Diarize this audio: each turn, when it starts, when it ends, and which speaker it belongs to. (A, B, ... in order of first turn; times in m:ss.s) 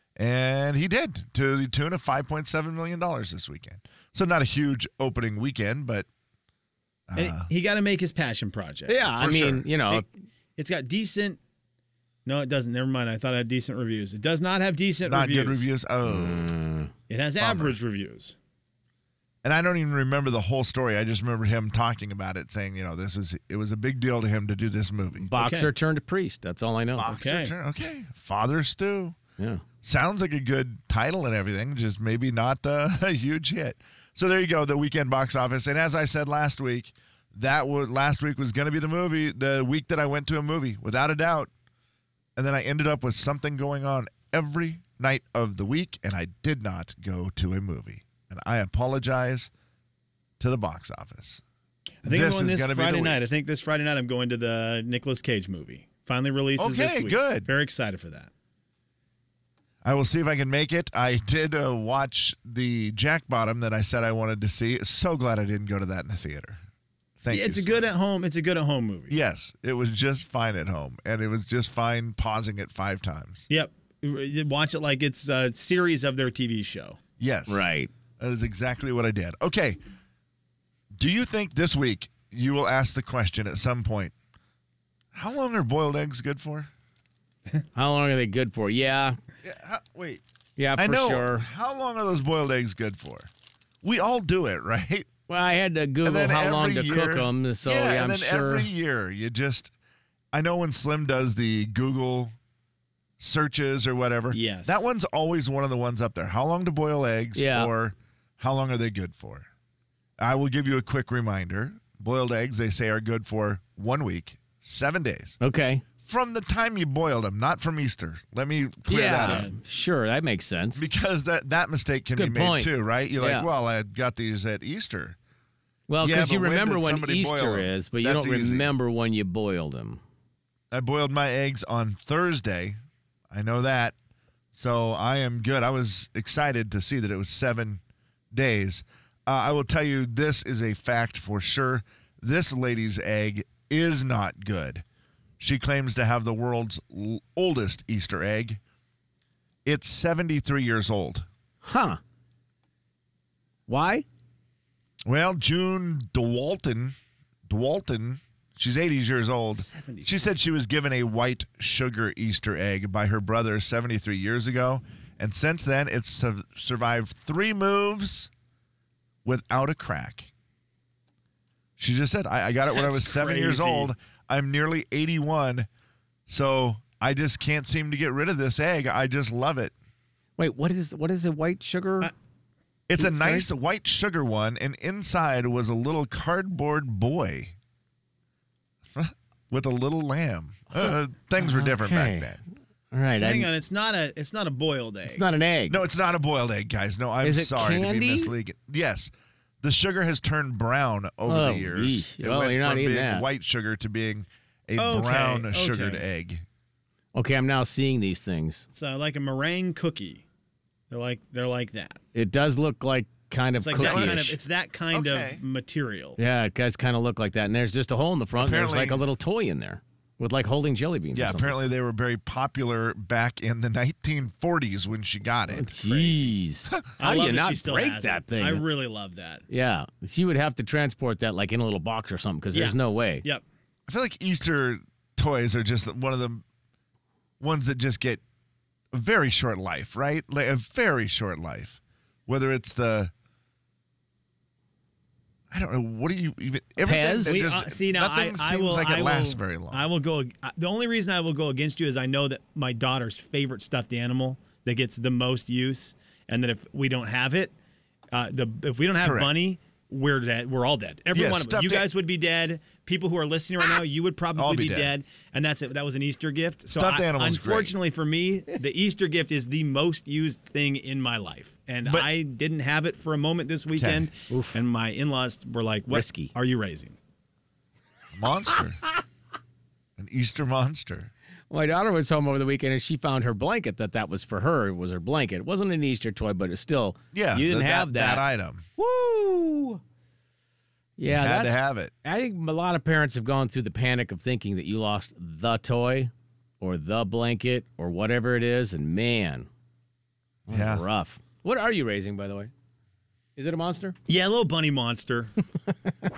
0:00.2-0:06.1 A
0:07.1-0:07.5 A
0:07.2-0:09.1 B
0:08.9-0:10.1 C
0:09.1-0:10.0 A
0:10.6-0:11.4 B
0:12.2-0:15.7 B
0:15.0-0:16.5 A
0:16.0-0:16.9 C
0:17.1-0:18.4 B
0:17.4-0:17.8 A
0:19.4-0:25.3 A
0:25.2-0:27.1 C
0:25.3-0:25.7 B
0:27.0-0:29.2 A
0:27.1-0:27.5 B
0:29.4-0:29.6 C
0:29.8-0:41.5 A
0:42.4-0:49.5 A
0:50.4-0:51.4 A
0:52.0-0:58.3 B
0:52.0-0:53.2 A
0:56.6-0:57.5 A
0:59.8-1:06.6 A
1:07.2-1:07.8 A
1:07.3-1:09.1 B
1:09.1-1:13.4 A
1:13.5-1:17.0 B
1:17.2-1:17.7 A
1:17.5-1:17.9 C
1:18.2-1:19.8 A
1:20.9-1:24.1 A
1:25.1-1:26.7 A
1:27.7-1:29.2 C
1:29.4-1:30.2 A
1:30.6-1:31.5 C
1:30.8-1:33.3 A
1:33.8-1:35.1 A
1:35.3-1:38.7 C
1:36.0-1:39.7 A
1:40.3-1:42.3 A
1:43.2-1:49.5 A
1:44.3-1:44.8 B
1:47.4-1:47.7 C
1:50.2-1:55.4 A
1:55.4-1:55.8 C
1:56.0-1:59.5 A
1:58.9-2:00.9 C
1:59.2-1:59.5 B
2:00.8-2:05.2 A
2:02.1-2:03.5 C
2:05.9-2:10.0 C
2:06.0-2:08.7 A
2:10.7-2:12.8 A
2:13.3-2:13.9 A
2:14.5-2:24.8 A
2:25.4-2:28.6 A
2:29.6-2:31.2 A
2:31.6-2:32.0 C
2:33.7-2:34.0 C
2:35.0-2:36.9 A
2:37.5-2:48.3 A
2:39.5-2:40.2 B
2:49.2-2:50.3 A
2:51.8-2:55.7 A
2:52.7-2:53.9 B
2:56.3-2:59.7 A
3:00.4-3:02.1 C
3:02.9-3:07.5 A
3:03.0-3:03.5 C
3:08.9-3:12.4 A
3:11.4-3:12.3 C
3:12.9-3:13.5 C
3:13.1-3:15.2 B
3:15.1-3:15.8 C
3:15.7-3:26.4 A
3:17.2-3:18.3 C
3:21.3-3:23.3 C
3:24.8-3:26.0 B
3:27.1-3:28.6 C
3:28.7-3:30.2 B
3:30.9-3:32.0 B
3:32.1-3:34.4 C
3:33.6-3:36.2 B
3:33.8-3:34.3 A
3:34.9-3:35.4 A
3:36.2-3:41.6 C
3:38.4-3:39.0 A
3:41.1-3:46.9 A
3:45.5-3:48.6 C
3:47.0-3:49.4 B
3:49.5-3:53.2 C
3:52.5-3:53.4 B
3:53.9-3:56.4 A
3:57.4-3:58.2 A
3:58.9-4:03.1 A
4:05.5-4:09.9 A
4:06.8-4:07.4 C
4:07.2-4:17.5 B
4:18.1-4:37.0 B
4:19.0-4:19.3 A
4:21.1-4:21.9 A
4:24.4-4:24.9 A
4:26.7-4:27.7 A
4:31.8-4:32.1 A
4:33.7-4:34.1 A
4:34.3-4:34.6 C
4:35.9-4:36.3 C
4:38.1-4:38.8 A
4:40.0-4:41.1 A
4:41.5-4:48.2 C
4:47.1-4:48.6 A
4:48.8-4:49.8 C
4:51.0-4:59.5 C
4:51.1-4:51.9 A
5:00.5-5:02.5 C
5:00.5-5:00.8 A
5:03.4-5:03.9 C
5:04.1-5:05.3 B